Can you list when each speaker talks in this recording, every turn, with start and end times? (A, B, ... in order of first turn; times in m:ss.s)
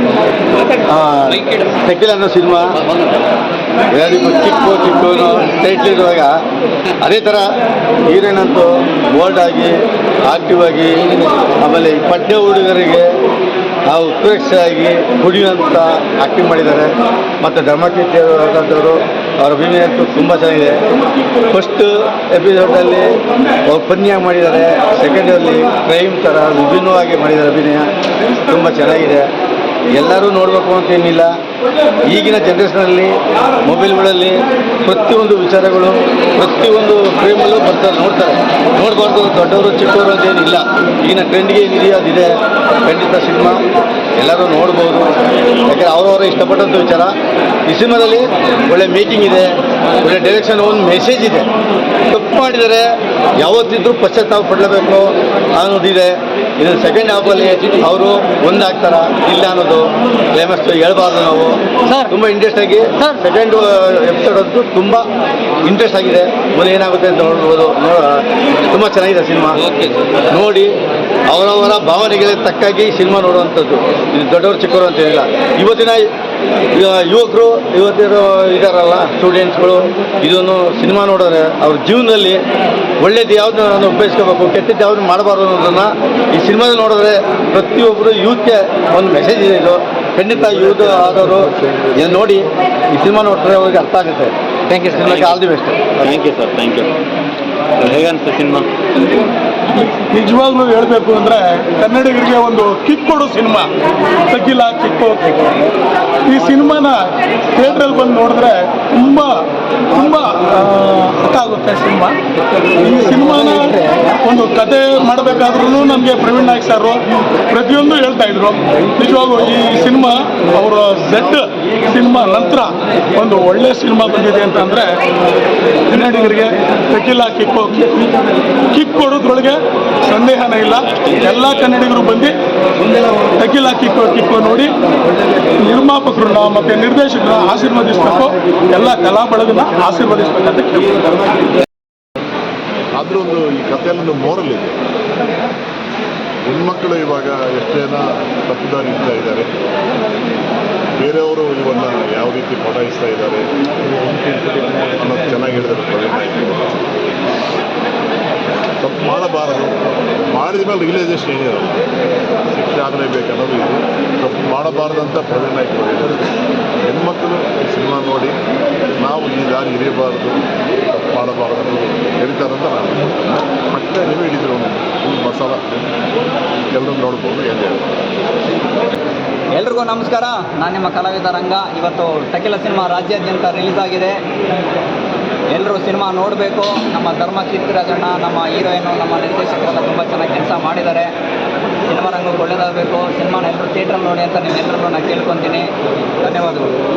0:00.5-0:00.8 A
0:00.9-0:02.7 B
0:03.9-0:06.3 B
0:07.0-0:07.4 B
0:08.1-0:09.7 B
0:10.3-0:13.1 B
0:13.9-0:20.8 B
0:21.5-0:27.9 B
0:28.5-0:29.3 B
0:29.9-0:31.3 B
0:32.0-0:42.3 B
0:42.8-0:43.6 B
0:44.2-0:45.1 B
0:45.7-0:47.1 B
0:47.7-0:51.5 B
0:52.0-0:52.9 B
0:53.4-1:05.0 B
1:05.6-1:09.6 B
1:09.6-1:10.3 A
1:10.3-1:10.7 B
1:11.3-1:16.0 B
1:16.7-1:22.4 B
1:23.0-1:34.3 B
1:34.7-1:35.4 A
1:34.9-1:35.9 B
1:36.0-1:36.9 A
1:37.8-1:38.7 A
1:39.9-1:43.7 C
1:44.3-1:45.4 C
1:46.3-1:49.3 C
1:49.9-1:52.2 C
1:52.8-2:04.9 C
2:05.9-2:08.1 C
2:08.7-2:12.4 C
2:10.8-2:11.8 A
2:13.3-2:14.8 C
2:15.6-2:21.3 C
2:23.0-2:24.8 D
2:26.4-2:29.5 D
2:31.0-2:33.4 D
2:34.8-2:36.9 D
2:38.8-2:39.8 D
2:40.3-2:41.9 D
2:42.5-2:46.2 D
2:46.9-2:48.4 D
2:49.0-2:55.9 D
2:56.7-2:57.9 D
2:59.6-3:04.2 E
3:05.5-3:11.1 E
3:11.9-3:15.7 E
3:16.2-3:16.7 E